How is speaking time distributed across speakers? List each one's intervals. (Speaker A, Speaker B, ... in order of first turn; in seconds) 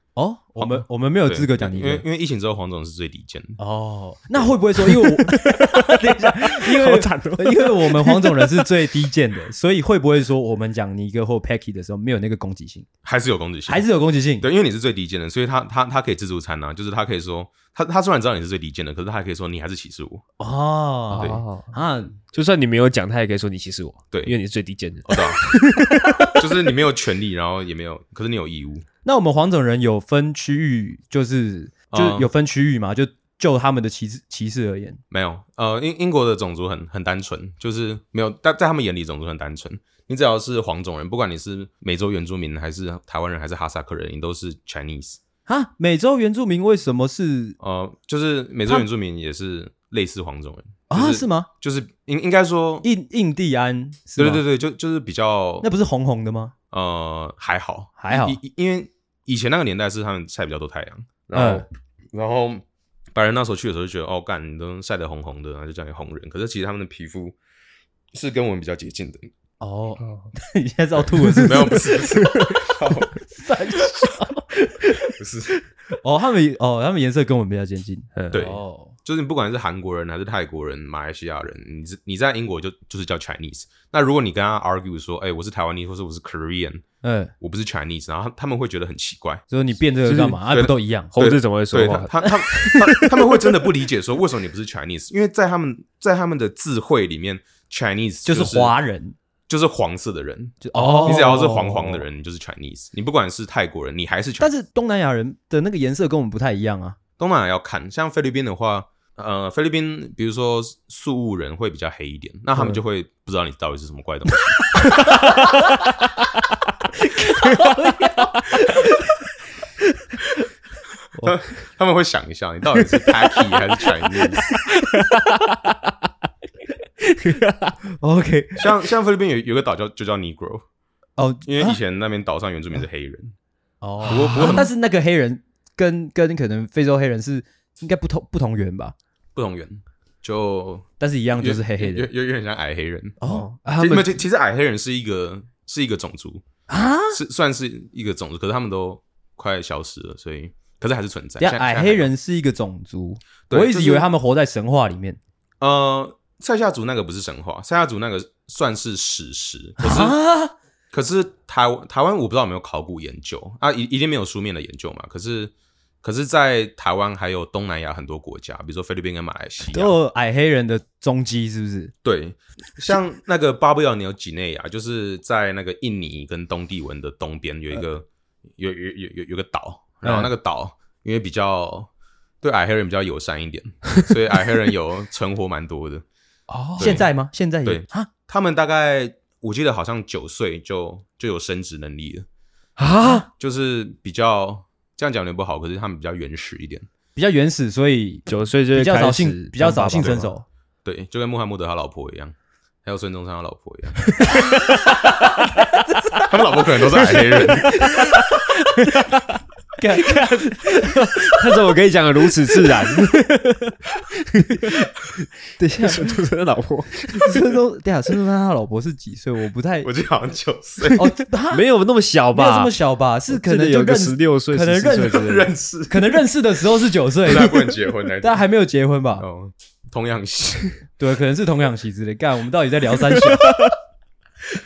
Speaker A: 0.1-2.0, 3.6-12.9, 13.7-14.4, 20.4-22.1, 25.8-26.4, 29.0-35.0, 45.5-47.6, 50.9-51.5, 52.8-54.4, 55.6-56.5, 58.0-58.4, 61.3-61.6, 69.6-72.5, 73.1-78.9, 87.0-87.3, 89.5-91.1, 92.2-93.0, 98.2-99.2, 100.6-101.5, 104.4-107.0, 114.8-116.0, 116.9-119.2, 125.0-125.4, 128.0-128.6, 131.2-131.8, 133.8-138.9, 141.0-142.1, 143.2-143.4, 146.7-147.2, 151.4-155.2, 159.8-160.5, 169.7-171.9, 180.0-180.3, 186.8-188.1, 197.2-200.4, 205.0-205.5, 207.6-208.6, 209.8-211.5, 212.7-212.9, 214.6-214.9, 215.6-216.2, 217.1-219.9, 220.9-221.6, 222.3-229.2, 231.0-233.7
Speaker B: 0.6-3.6, 13.0-13.8, 14.4-20.2, 24.1-24.4, 25.1-25.4, 26.3-28.8, 31.9-32.3, 35.1-45.2, 47.6-52.9, 54.2-55.7, 56.7-62.6, 63.1-67.3, 68.1-69.3, 71.3-73.1, 75.2-75.6, 78.3-86.8, 87.4-89.5, 90.5-98.7, 99.5-104.5, 107.2-114.7, 121.2-124.5, 128.6-130.6, 131.4-133.3, 134.0-134.7, 139.3-143.2, 143.8-146.4, 147.1-152.1, 153.5-154.1, 155.6-160.2, 160.9-165.5, 166.0-169.9, 172.0-178.1, 178.6-181.9, 182.4-186.0, 186.8-187.1, 187.6-192.3, 193.3-196.8, 200.8-204.2, 206.2-207.9, 219.8-221.1, 225.1-226.2, 227.2-228.4, 229.2-230.8
Speaker C: 4.8-8.7, 21.1-21.7, 22.3-26.4, 78.2-78.5, 90.0-90.4, 91.1-93.5, 100.8-102.0, 115.0-115.4, 117.4-118.2, 124.9-125.9, 127.2-127.8, 143.2-144.2, 186.5-187.0, 192.8-193.2, 198.3-200.3, 204.1-205.7, 206.9-209.4, 210.0-213.8, 214.3-214.7, 215.8-217.4, 221.5-222.7, 223.3-225.5, 233.3-233.7